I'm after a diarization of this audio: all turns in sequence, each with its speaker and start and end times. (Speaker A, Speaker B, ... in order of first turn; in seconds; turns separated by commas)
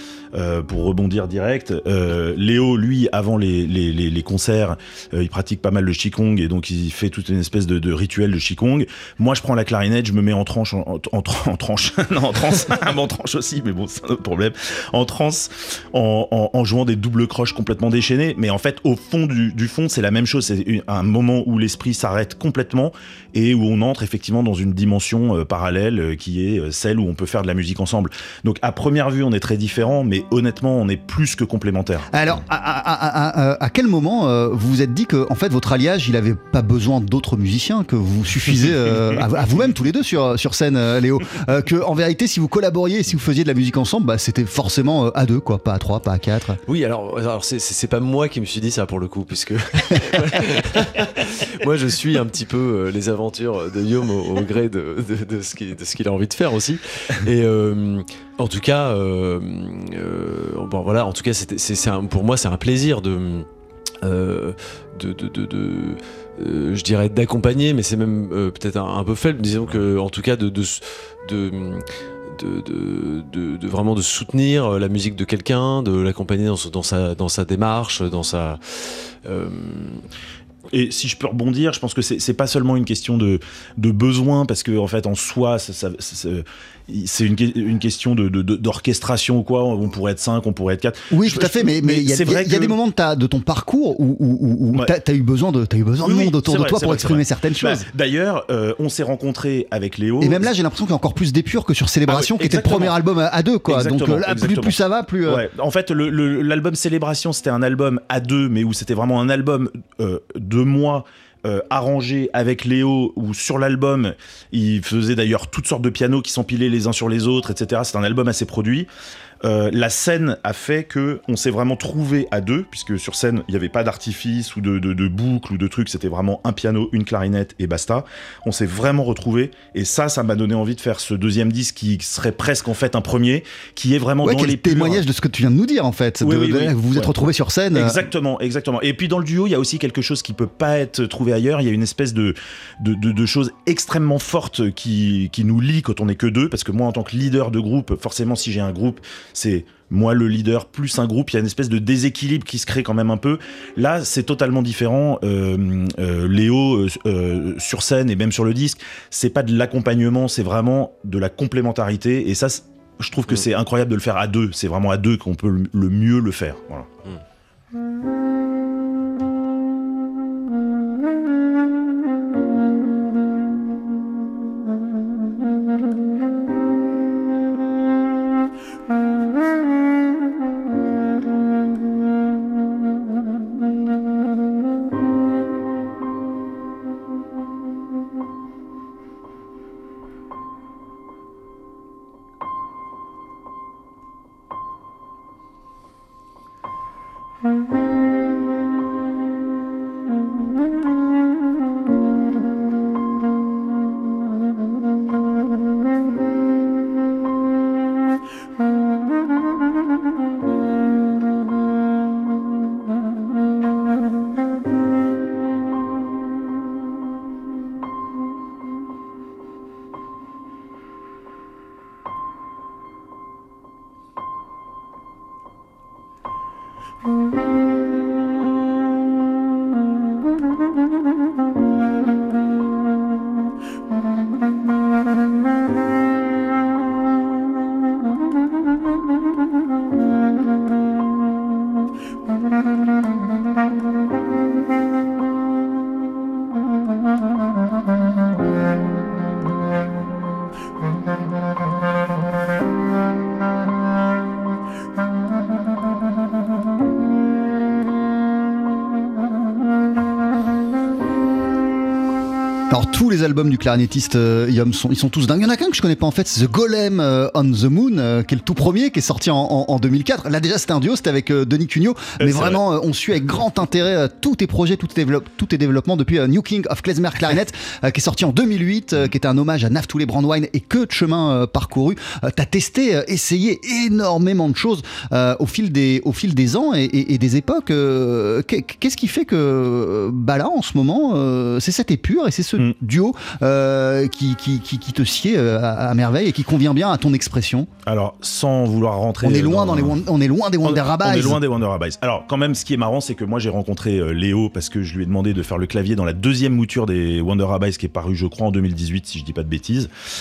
Speaker A: 0.3-32.1, Speaker B: 32.1-46.6, Speaker C: 46.7-63.5, Speaker C: 64.0-80.1, Speaker A: 80.7-92.8, Speaker B: 91.1-97.9, Speaker A: 96.0-100.5, Speaker B: 100.2-105.5, Speaker A: 102.1-103.0, Speaker A: 103.7-118.9, Speaker A: 119.4-135.0, Speaker B: 134.2-138.0, Speaker A: 136.2-137.1, Speaker A: 137.7-166.9, Speaker B: 262.7-297.7, Speaker A: 272.2-272.6, Speaker A: 297.9-300.0, Speaker B: 299.2-301.4, Speaker A: 300.6-309.9